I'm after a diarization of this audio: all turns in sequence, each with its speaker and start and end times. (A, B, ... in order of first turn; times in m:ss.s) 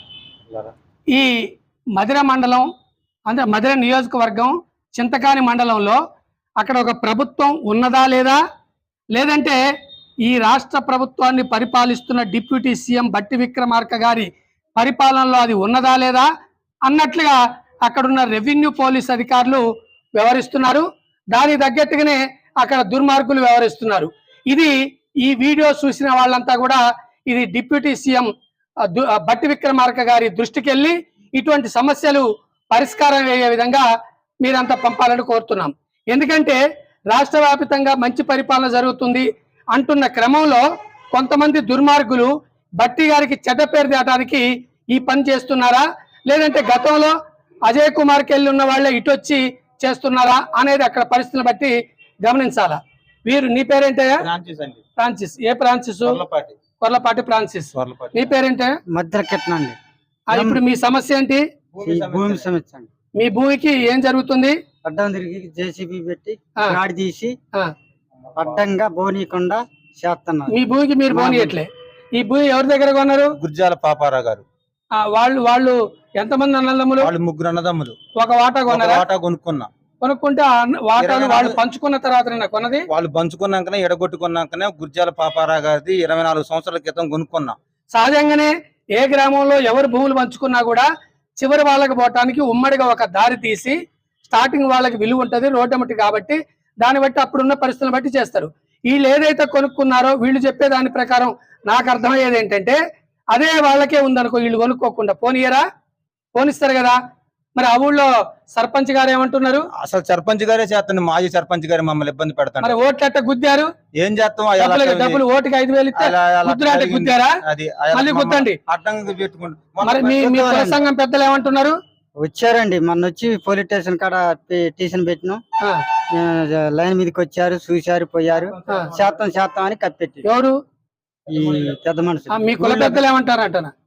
0:01.1-0:01.4 A
0:02.0-0:02.7 A
0:03.3-0:06.0 A
0:06.6-0:08.4 A
0:09.1-0:09.6 A
0:10.2-0:16.3 A
0:16.9-0:19.6 A
0:20.2-0:28.3 A
0:28.9-0:33.9 A
0:34.4-0:36.6 A
0:37.1-0:40.6 A
0:41.1-0:47.1 A
0:47.7-0:54.2 A
0:54.2-0:54.8 B
0:55.0-0:56.2 A
0:56.1-0:56.6 B
0:56.8-0:58.8 A
0:57.8-0:58.3 B
0:58.9-0:59.8 C
1:00.3-1:01.4 A
1:00.3-1:00.6 C
1:01.7-1:02.5 B
1:01.8-1:02.9 C
1:03.2-1:04.6 A
1:04.8-1:07.4 C
1:08.3-1:08.6 B
1:08.4-1:11.6 C
1:10.5-1:13.4 A
1:13.4-1:14.4 B
1:15.0-1:17.1 A
1:17.0-1:18.0 B
1:18.2-1:19.0 A
1:18.7-1:19.7 B
1:20.0-1:22.9 A
1:21.0-1:21.6 B
1:22.9-1:27.6 B
1:27.9-1:30.9 A
1:31.4-1:42.8 A
1:43.3-1:45.6 A
1:46.4-1:47.0 A
1:47.6-1:49.7 A
1:49.8-1:52.7 B
1:52.6-1:53.7 A
1:54.0-1:55.2 B
1:54.6-1:57.4 A
1:56.0-2:00.8 B
1:57.9-1:58.6 A
1:59.8-2:01.8 A
2:02.2-2:05.4 C
2:06.1-2:10.2 C
2:08.4-2:09.1 B
2:10.2-2:10.6 A
2:11.3-2:13.0 C
2:11.4-2:11.7 B
2:12.3-2:13.7 A